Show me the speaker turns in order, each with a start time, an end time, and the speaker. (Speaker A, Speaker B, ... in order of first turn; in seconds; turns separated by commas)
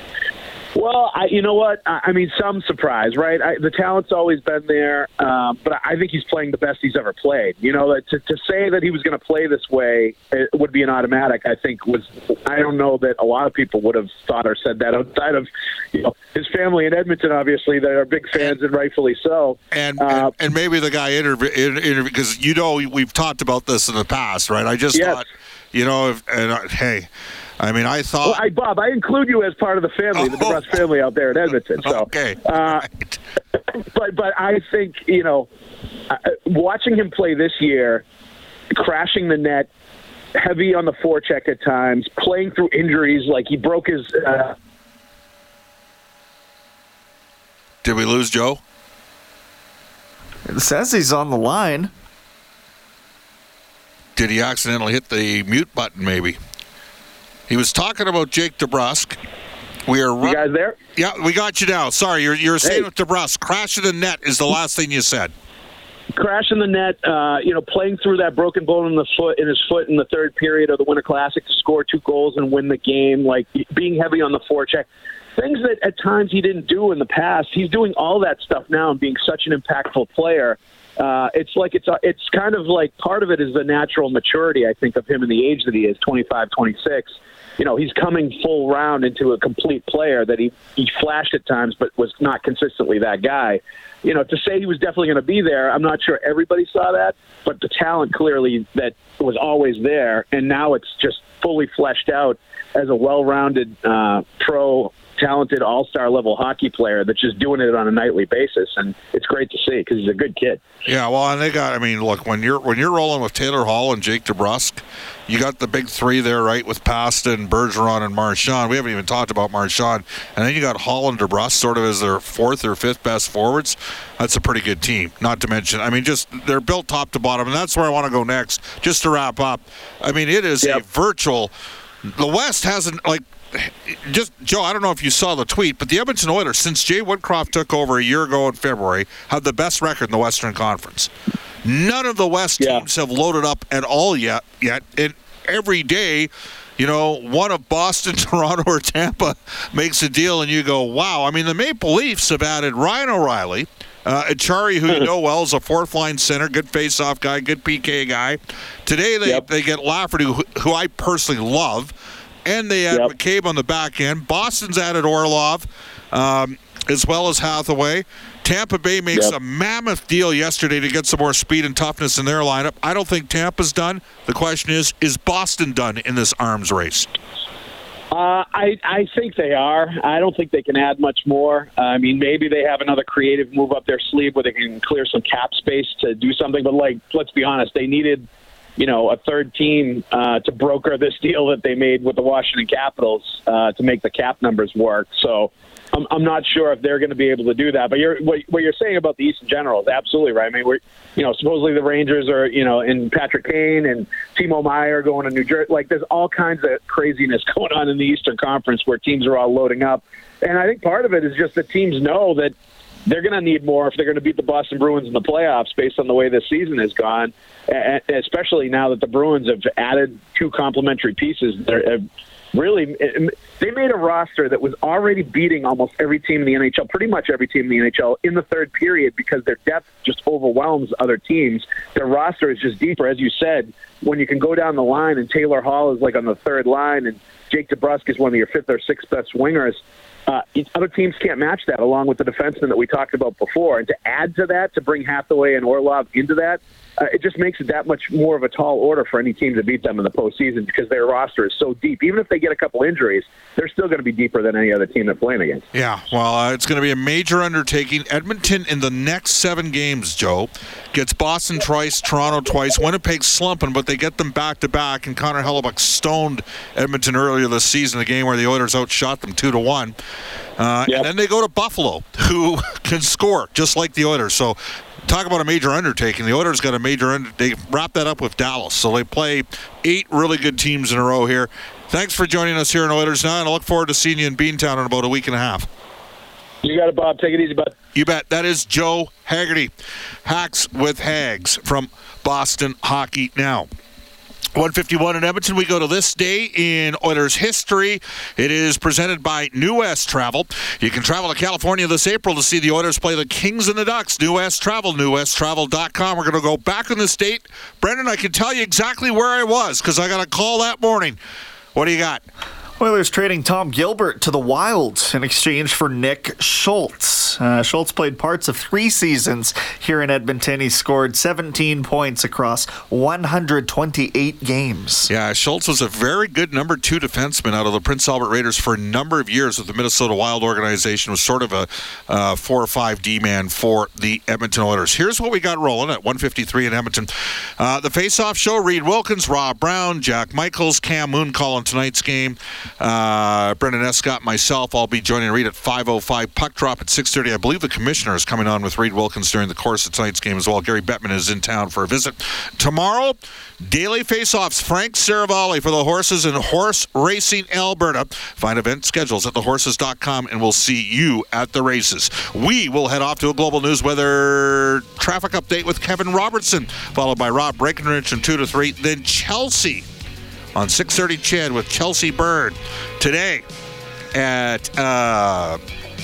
Speaker A: 0.8-20.3, Speaker B: 19.7-27.1, Speaker A: 24.9-25.2, Speaker B: 27.6-28.4, Speaker A: 28.2-32.8, Speaker B: 30.2-30.6, Speaker B: 31.8-33.2, Speaker A: 33.7-35.5, Speaker A: 36.1-38.0, Speaker A: 38.8-39.7, Speaker A: 40.4-44.5, Speaker B: 47.8-48.6, Speaker C: 50.5-51.9, Speaker B: 54.2-56.4, Speaker B: 57.5-59.2, Speaker B: 59.9-65.3, Speaker A: 60.2-60.8, Speaker A: 66.1-74.9, Speaker A: 75.4-87.1, Speaker A: 87.6-110.6, Speaker B: 110.9-131.5, Speaker B: 132.2-141.1, Speaker B: 141.7-161.9, Speaker A: 142.6-142.8, Speaker B: 162.5-177.1, Speaker A: 178.1-188.3, Speaker A: 188.8-212.6, Speaker A: 213.1-222.0, Speaker A: 222.5-255.6, Speaker B: 255.7-269.9, Speaker B: 270.6-285.7, Speaker A: 286.6-287.7, Speaker B: 287.9-289.7, Speaker B: 290.2-293.7, Speaker B: 294.6-311.2, Speaker B: 311.8-312.2, Speaker C: 312.8-325.1, Speaker B: 325.1-369.9, Speaker B: 370.6-373.4, Speaker B: 374.1-375.6